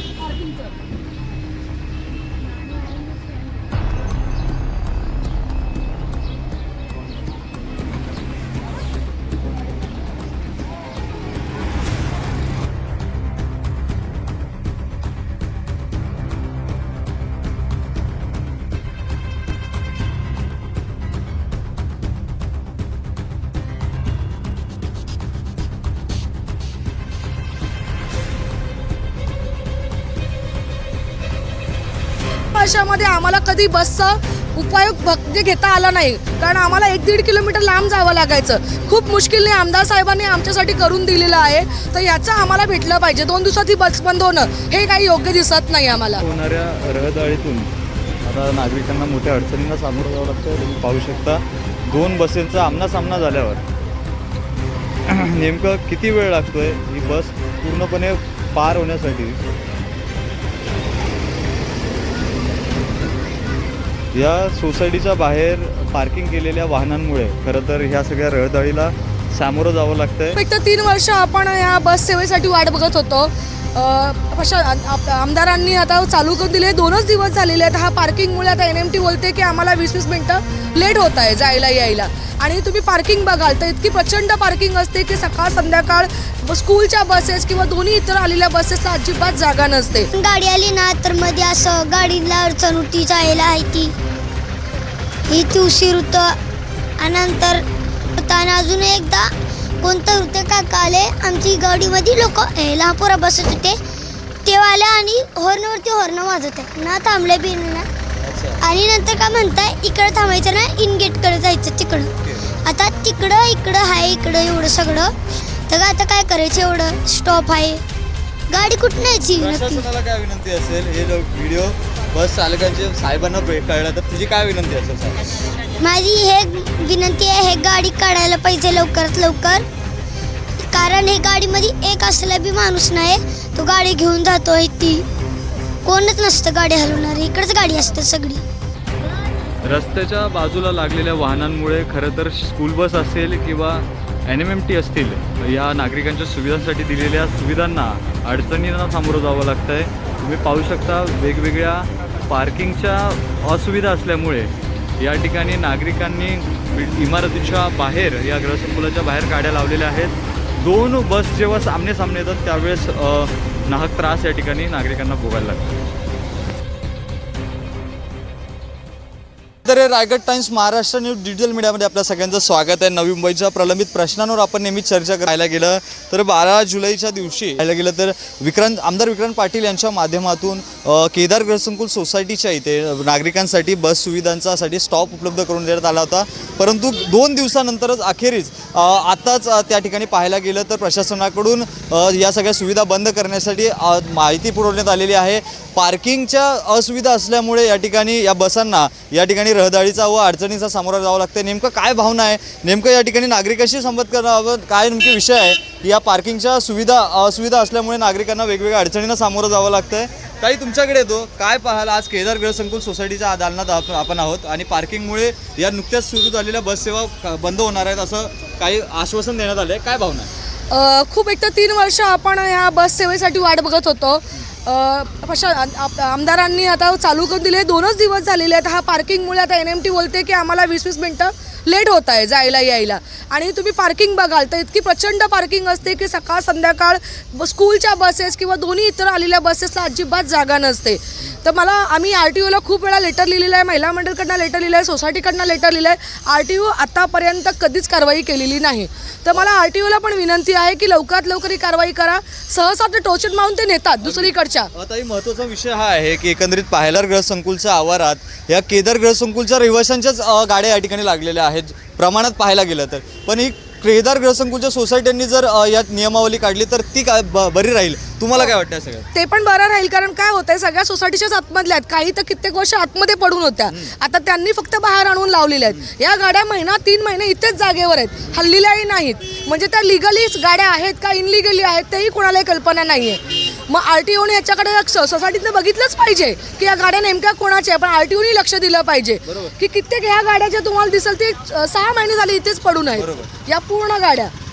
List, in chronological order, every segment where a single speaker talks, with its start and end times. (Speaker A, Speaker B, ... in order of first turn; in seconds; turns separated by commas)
Speaker A: 32.5-46.2, Speaker B: 46.1-47.7, Speaker B: 48.2-53.6, Speaker B: 55.0-59.4, Speaker B: 64.1-70.4, Speaker A: 70.3-90.1, Speaker C: 90.1-93.9, Speaker C: 95.3-96.4, Speaker C: 97.0-97.6, Speaker C: 98.2-99.3, Speaker C: 99.8-103.8, Speaker C: 104.4-107.9, Speaker B: 108.2-108.6, Speaker C: 108.6-112.1, Speaker B: 112.2-112.5, Speaker C: 112.6-115.1, Speaker C: 115.7-117.8, Speaker C: 118.5-119.8, Speaker B: 119.3-125.3, Speaker C: 125.8-129.6, Speaker C: 130.6-135.1, Speaker C: 135.8-138.4, Speaker B: 139.6-165.8, Speaker B: 169.7-220.3, Speaker A: 220.7-254.7, Speaker B: 254.0-269.1, Speaker A: 269.1-294.3, Speaker B: 289.2-289.5, Speaker B: 292.9-293.3